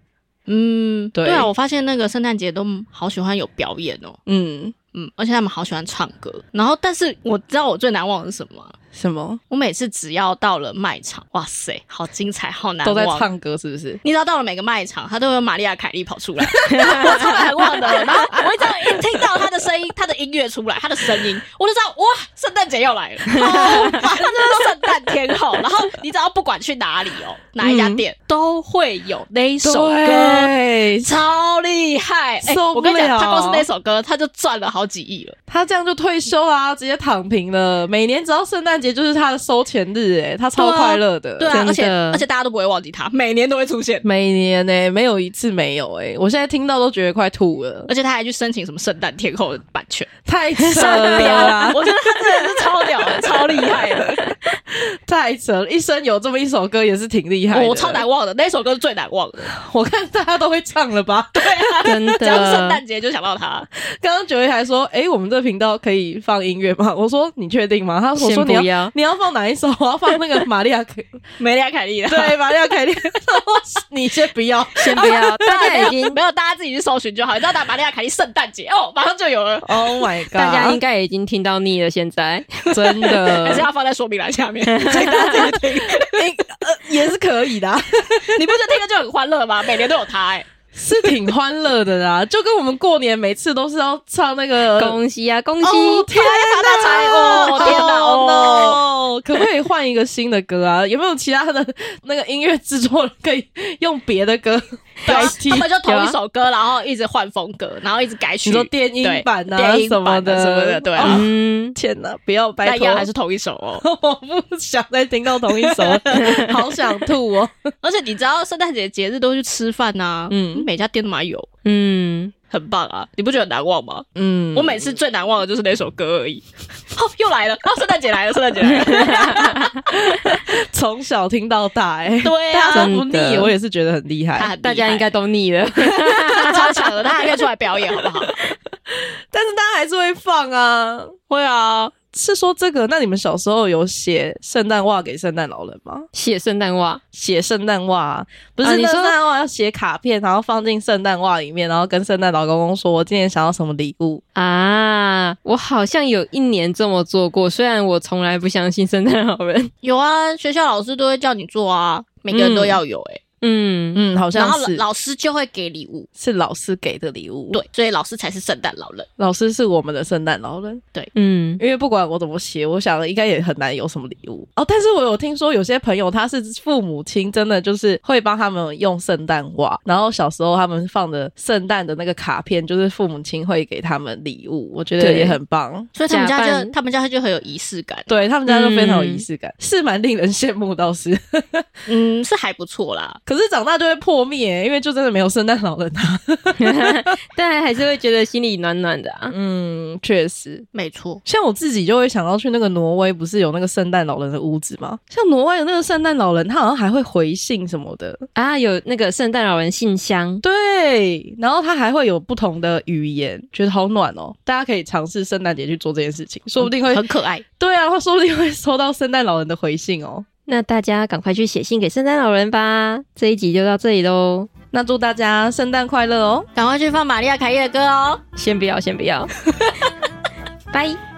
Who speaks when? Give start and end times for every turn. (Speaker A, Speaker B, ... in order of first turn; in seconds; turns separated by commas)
Speaker A: 0.5-4.2, Speaker B: 1.1-1.5, Speaker B: 4.3-4.8, Speaker A: 4.9-8.8, Speaker B: 8.9-9.4, Speaker A: 9.5-13.3, Speaker B: 12.8-14.0, Speaker A: 14.0-35.4, Speaker B: 16.7-19.2, Speaker B: 23.5-24.7, Speaker C: 23.5-23.9, Speaker B: 27.6-28.0, Speaker B: 29.6-31.1, Speaker B: 32.4-33.7, Speaker B: 35.5-41.6, Speaker C: 40.6-41.0, Speaker A: 40.7-44.1, Speaker C: 41.5-42.2, Speaker B: 44.0-47.9, Speaker A: 47.9-54.1, Speaker B: 50.3-51.8, Speaker C: 50.7-51.8, Speaker B: 55.0-58.0, Speaker A: 57.5-59.5, Speaker B: 59.5-62.5, Speaker A: 61.4-63.7, Speaker C: 61.9-62.8, Speaker B: 64.0-71.2, Speaker C: 68.2-68.9, Speaker A: 71.4-72.5, Speaker B: 72.1-75.5, Speaker C: 74.8-76.2, Speaker A: 75.1-79.8, Speaker B: 79.6-80.8, Speaker C: 80.2-83.5, Speaker B: 82.7-83.7, Speaker A: 83.4-86.2, Speaker C: 84.7-85.5, Speaker B: 84.9-88.6, Speaker A: 88.3-90.5, Speaker B: 90.7-95.0, Speaker C: 94.7-96.1, Speaker B: 95.6-105.7, Speaker A: 96.1-98.8, Speaker C: 96.8-98.0, Speaker A: 105.1-111.2, Speaker C: 105.8-106.2, Speaker B: 108.5-113.1, Speaker C: 111.0-111.8, Speaker A: 112.6-113.8, Speaker B: 113.8-117.7, Speaker A: 115.5-116.4, Speaker C: 116.2-116.5, Speaker A: 117.8-121.5, Speaker B: 120.3-120.7, Speaker C: 121.6-122.3, Speaker A: 122.5-129.8, Speaker B: 124.2-124.9, Speaker C: 129.1-129.6, Speaker B: 130.1-134.5, Speaker A: 132.2-132.9, Speaker C: 132.7-133.5, Speaker A: 134.4-135.1, Speaker C: 134.6-136.7, Speaker A: 136.4-138.3, Speaker B: 139.3-141.1, Speaker A: 141.3-142.0, Speaker B: 142.1-146.1, Speaker C: 146.1-147.0, Speaker B: 147.1-154.2, Speaker C: 148.6-149.2, Speaker C: 154.3-159.7, Speaker A: 159.8-163.2, Speaker B: 162.3-162.8, Speaker C: 163.4-164.0, Speaker B: 163.9-164.8, Speaker A: 164.3-166.1, Speaker B: 166.2-167.6, Speaker A: 167.5-169.1, Speaker B: 169.2-170.8, Speaker C: 171.2-171.6, Speaker B: 171.6-185.9, Speaker C: 185.0-185.4, Speaker A: 185.9-188.3, Speaker C: 186.1-186.7, Speaker B: 188.1-191.7, Speaker C: 188.5-189.2, Speaker A: 191.9-193.2, Speaker B: 193.3-197.2, Speaker C: 196.6-199.3, Speaker B: 199.3-200.7, Speaker A: 200.7-201.2, Speaker B: 201.2-208.2, Speaker C: 208.3-210.4, Speaker B: 210.4-217.0, Speaker A: 216.6-217.4, Speaker B: 217.6-220.2, Speaker C: 220.5-224.5, Speaker B: 224.7-226.5, Speaker A: 226.6-228.2, Speaker C: 228.4-229.3, Speaker C: 230.7-231.0